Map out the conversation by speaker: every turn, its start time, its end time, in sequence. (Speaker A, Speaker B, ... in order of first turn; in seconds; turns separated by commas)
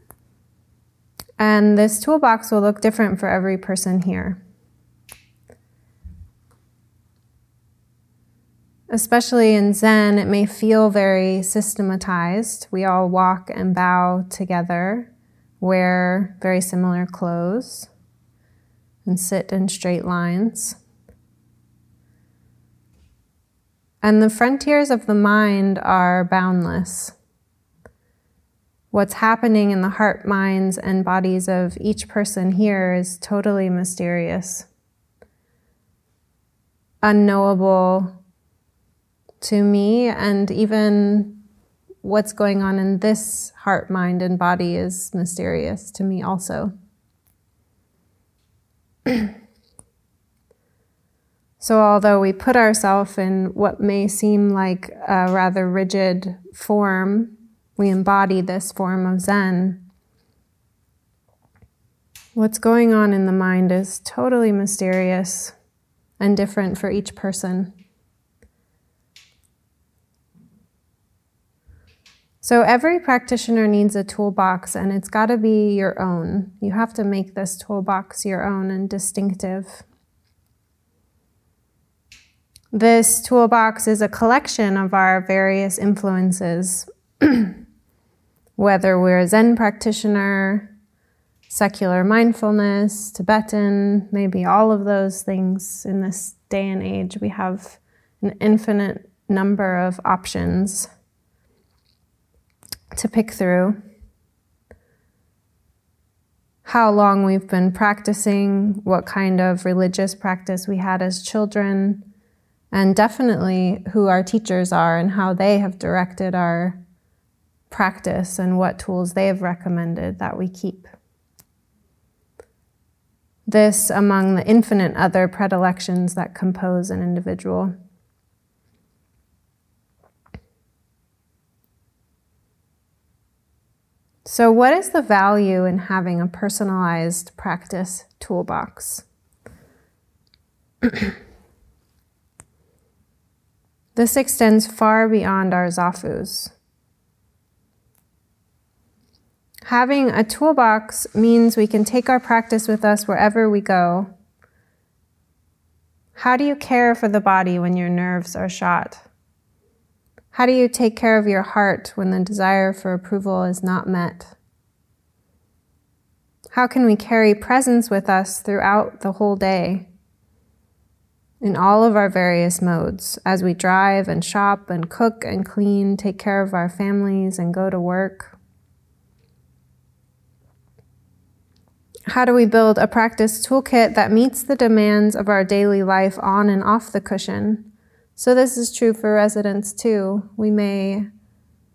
Speaker A: 1.4-4.4, Speaker A: 8.9-17.9, Speaker A: 19.0-20.8, Speaker A: 24.0-27.1, Speaker A: 28.9-34.7, Speaker A: 37.0-38.2, Speaker A: 39.4-41.4, Speaker A: 42.0-46.7, Speaker A: 51.6-59.8, Speaker A: 62.3-65.5, Speaker A: 66.2-67.7, Speaker A: 72.4-79.8, Speaker A: 82.7-87.6, Speaker A: 88.6-90.7, Speaker A: 91.5-100.9, Speaker A: 102.9-103.8, Speaker A: 106.6-112.0, Speaker A: 112.7-116.8, Speaker A: 117.7-120.9, Speaker A: 123.5-127.7, Speaker A: 134.2-139.0, Speaker A: 140.8-141.1, Speaker A: 143.9-146.5, Speaker A: 149.7-154.1, Speaker A: 156.2-159.1, Speaker A: 160.3-164.3, Speaker A: 166.5-169.9, Speaker A: 171.4-178.4, Speaker A: 182.1-191.1